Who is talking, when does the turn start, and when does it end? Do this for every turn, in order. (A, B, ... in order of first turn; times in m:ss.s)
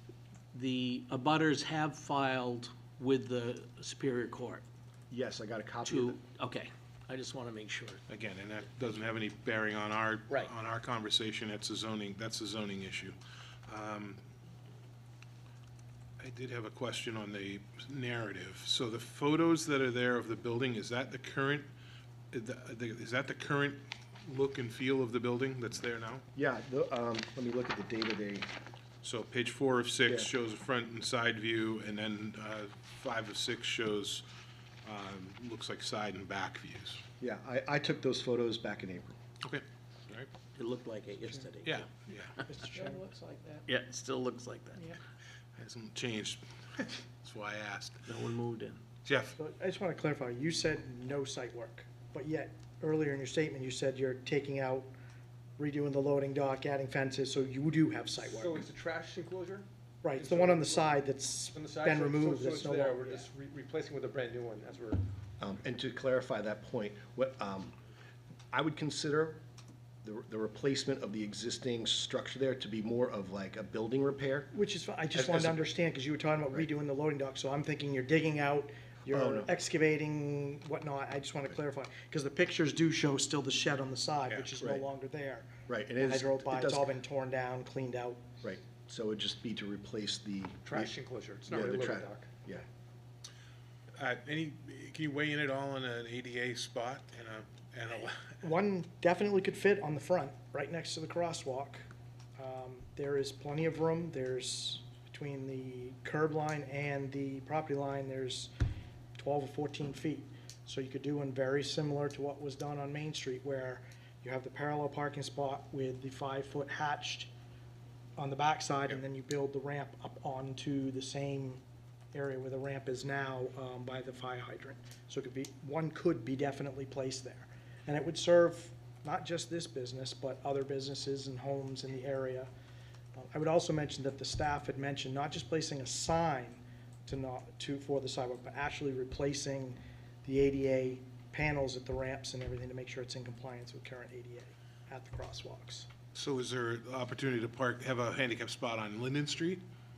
0:00.5-0:04.6 A
0:05.1-0:06.2 B
0:05.8-0:08.0 A
0:08.1-0:13.2 C
0:13.7-0:14.2 C
0:16.2-0:21.7 C
0:22.3-0:26.2 C
0:26.4-0:28.5 B
0:29.0-0:34.2 C
0:34.8-0:37.0 C
0:37.2-0:39.2 B
0:39.4-0:40.3 C
0:40.6-0:41.9 A
0:41.6-0:42.4 C
0:42.5-0:43.1 D
0:43.6-0:45.0 A
0:45.6-0:48.0 C
0:48.1-0:48.8 A
0:49.0-0:49.4 C
0:49.4-0:54.9 D
0:55.6-0:58.6 D
0:58.2-1:01.0 E
1:00.0-1:03.3 D
1:01.5-1:05.0 E
1:05.4-1:07.7 B
1:08.5-1:09.4 B
1:10.0-1:14.5 B
1:14.5-1:28.2 D
1:15.1-1:15.7 B
1:19.1-1:19.5 B
1:24.6-1:24.8 B
1:25.7-1:26.9 B
1:28.4-1:30.9 B
1:30.7-1:32.3 E
1:31.5-1:32.6 B
1:34.0-1:38.4 C
1:38.4-1:41.9 D
1:42.4-1:48.5 D
1:49.2-1:57.3 D
1:58.2-2:01.6 D
2:02.1-2:12.5 D
2:13.2-2:25.9 D
2:26.1-2:29.6 C